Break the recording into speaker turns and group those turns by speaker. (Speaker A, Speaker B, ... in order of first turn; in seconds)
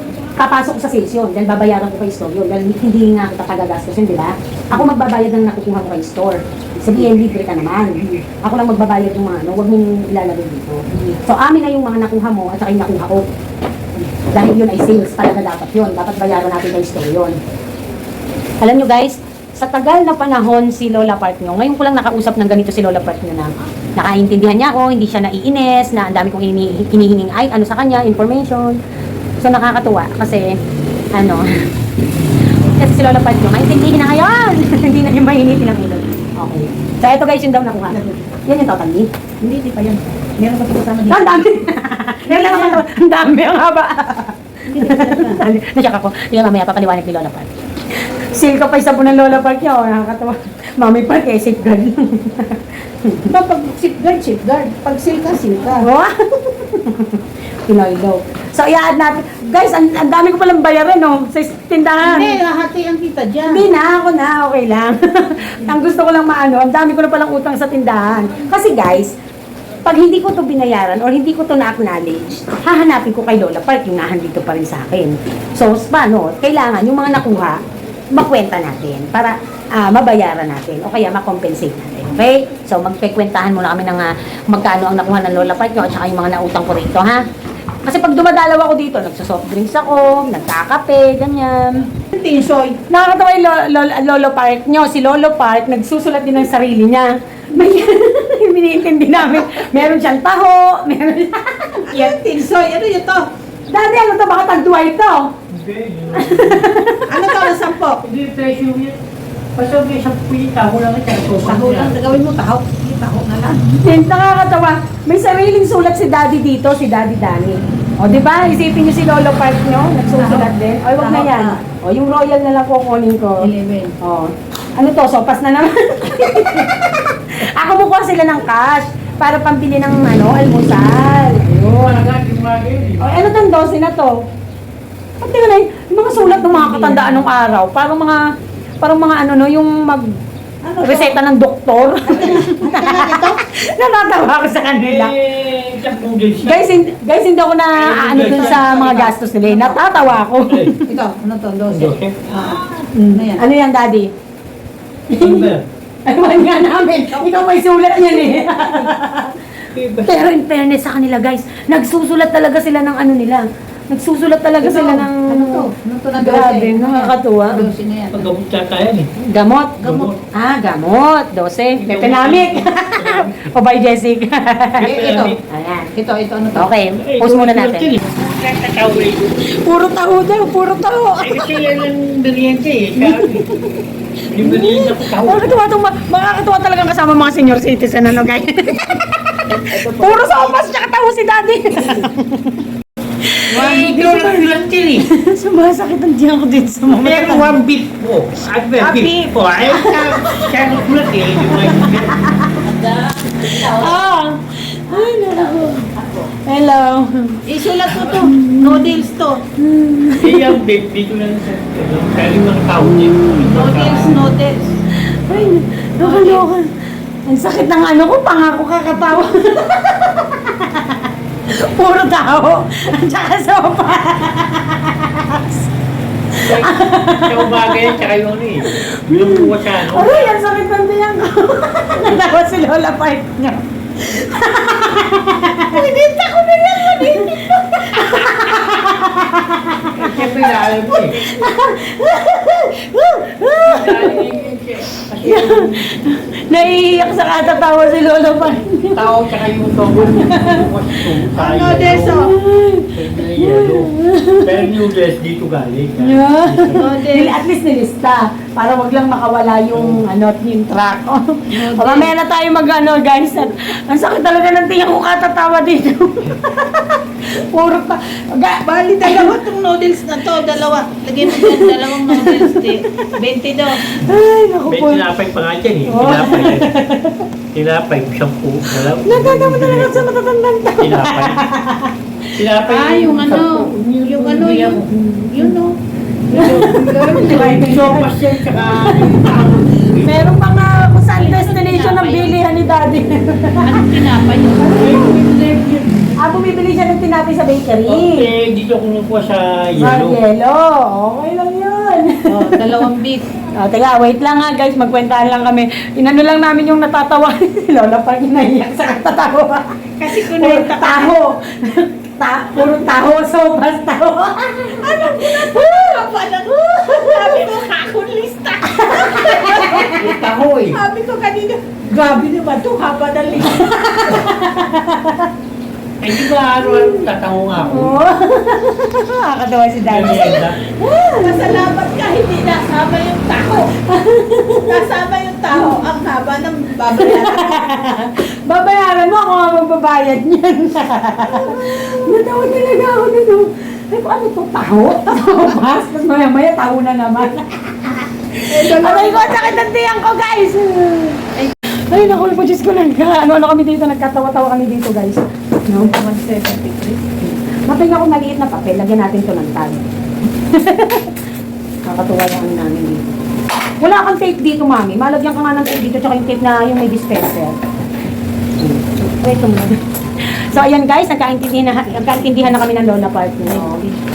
Speaker A: 0.4-13.2, 14.2-17.4, 18.6-28.8, 29.4-30.6, 31.1-31.5, 32.8-39.1, 41.1-53.3, 55.8-62.4, 63.5-69.1, 69.8-77.6, 78.1-87.3, 87.8-91.9, 92.9-102.2, 103.7-105.3, 106.1-107.5, 113.8-132.0, 133.0-134.2, 135.2-138.3, 138.8-140.2, 140.8-145.1, 146.4-150.9, 152.9-154.1, 155.1-155.5, 156.1-159.4, 160.0-167.7, 169.2-169.8, 170.3-174.9, 175.5-175.9, 176.5-177.9, 179.5-181.6, 183.0-183.8, 184.4-192.6, 193.2-197.6, 198.8-200.6, 201.3-202.7, 203.3-209.0, 209.6-210.6, 212.8-213.4, 214.9-225.6, 226.3-228.0, 228.7-235.8, 236.8-244.3, 245.2-249.1, 250.0-250.7, 252.1-254.7, 256.0-269.3, 271.2-273.1, 273.8-275.1, 275.9-277.2, 279.0-282.4, 286.3-289.2, 290.0-294.0, 294.6-295.2, 296.1-298.3, 299.8-302.9, 303.6-316.1, 316.7-317.7, 318.6-320.2, 322.0-322.3, 323.4-325.3, 326.2-331.7, 333.8-334.8, 335.5-335.8, 337.0-355.9, 357.2-359.9, 360.5-361.1, 361.9-363.2, 363.8-367.6, 368.6-373.8
Speaker B: 6.7-7.1, 10.9-11.2, 37.9-38.2, 39.4-41.6, 42.2-42.8, 44.7-45.4, 53.3-55.9, 62.0-63.7, 92.1-92.8, 101.9-103.3, 107.1-108.0, 111.3-113.8, 120.1-121.6, 123.4-124.0, 136.1-137.2, 140.6-141.2, 142.1-143.4, 148.2-149.8, 150.8-153.5, 156.9-157.5, 158.2-158.9, 164.6-168.3, 169.8-170.1, 174.8-175.4, 175.9-176.7, 189.7-190.2, 207.4-209.4, 213.3-214.8, 216.0-216.5, 235.6-237.6, 251.3-252.3, 256.8-257.4, 261.5-262.1, 268.6-273.8, 282.6-288.1, 291.1-292.4, 293.6-295.7, 302.2-303.3, 310.0-311.2, 314.6-323.7, 331.2-333.8, 334.5-337.7, 341.2-342.2, 348.5-349.5, 355.7-357.0, 373.4-374.0
Speaker C: 105.5-106.7, 108.0-109.0, 109.5-112.0, 131.6-133.4, 144.8-146.8, 147.7-149.1, 149.7-150.7, 151.7-152.8, 155.2-155.6, 159.7-160.3, 168.1-169.1, 169.8-170.2, 171.8-173.5, 174.8-175.4, 177.0-179.3, 181.2-183.5, 184.3-185.6, 193.5-195.0, 196.9-203.0, 203.6-204.1, 210.2-214.2, 226.4-230.4, 239.9-241.2, 243.6-246.0, 248.9-252.3, 252.9-256.9, 259.7-260.0, 274.7-276.7, 277.5-280.1, 280.8-281.6, 282.4-284.9, 286.3-290.4, 294.7-295.9, 297.9-300.2, 319.7-320.8, 326.0-328.0, 329.9-330.6